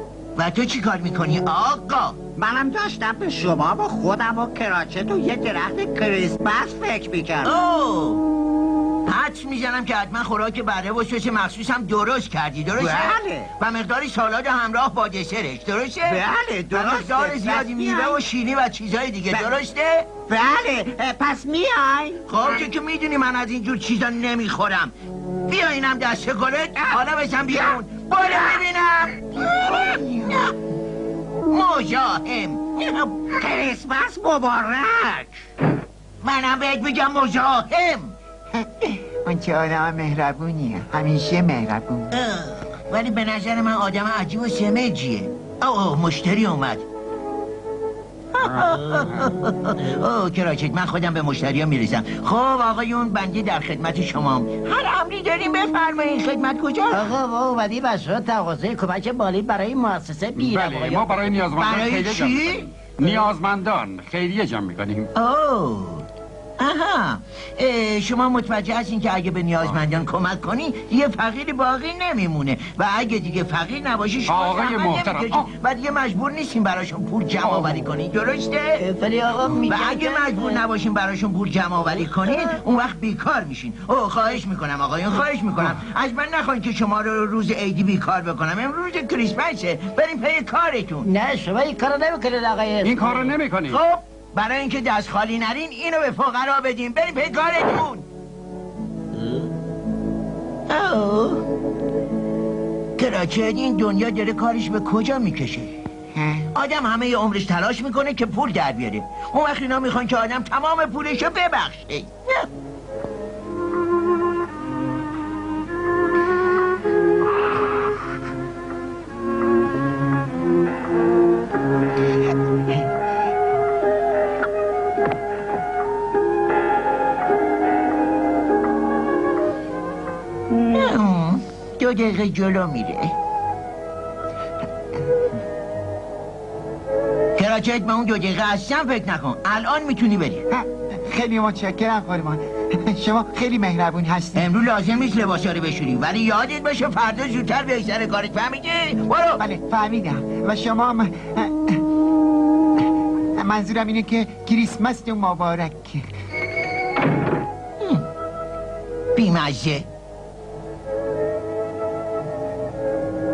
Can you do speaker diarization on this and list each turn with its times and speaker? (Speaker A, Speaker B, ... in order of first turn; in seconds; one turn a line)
Speaker A: 0.3-2.2
Speaker B: 2.4-7.5
Speaker A: 7.4-8.2
Speaker A: 9.1-20.1
Speaker B: 12.8-13.5
Speaker B: 16.1-18.2
Speaker B: 20.3-22.2
Speaker A: 22.3-24.9
Speaker A: 25.5-30.5
Speaker C: 29.4-30.4
Speaker A: 31.5-33.3
Speaker B: 33.3-35.4
Speaker A: 36.2-38.1
Speaker C: 38.5-42.1
Speaker A: 42.1-46.8
Speaker A: 48.3-57.1
Speaker D: 56.9-61.3
Speaker E: 60.3-65.1
Speaker A: 61.6-62.7
Speaker A: 65.1-66.0
Speaker A: 66.6-78.8
Speaker E: 74.3-75.5
Speaker E: 77.4-77.8
Speaker D: 78.8-80.6
Speaker A: 79.6-91.1
Speaker D: 91.0-93.4
Speaker E: 92.8-93.8
Speaker A: 93.6-98.1
Speaker A: 100.7-101.4
Speaker A: 103.0-105.8
Speaker C: 106.1-106.5
Speaker A: 106.5-112.5
Speaker A: 130.6-133.1
Speaker A: 137.3-140.4
Speaker C: 140.5-144.5
Speaker A: 144.3-149.4
Speaker C: 149.4-151.8
Speaker C: 153.3-156.1
Speaker A: 159.1-159.9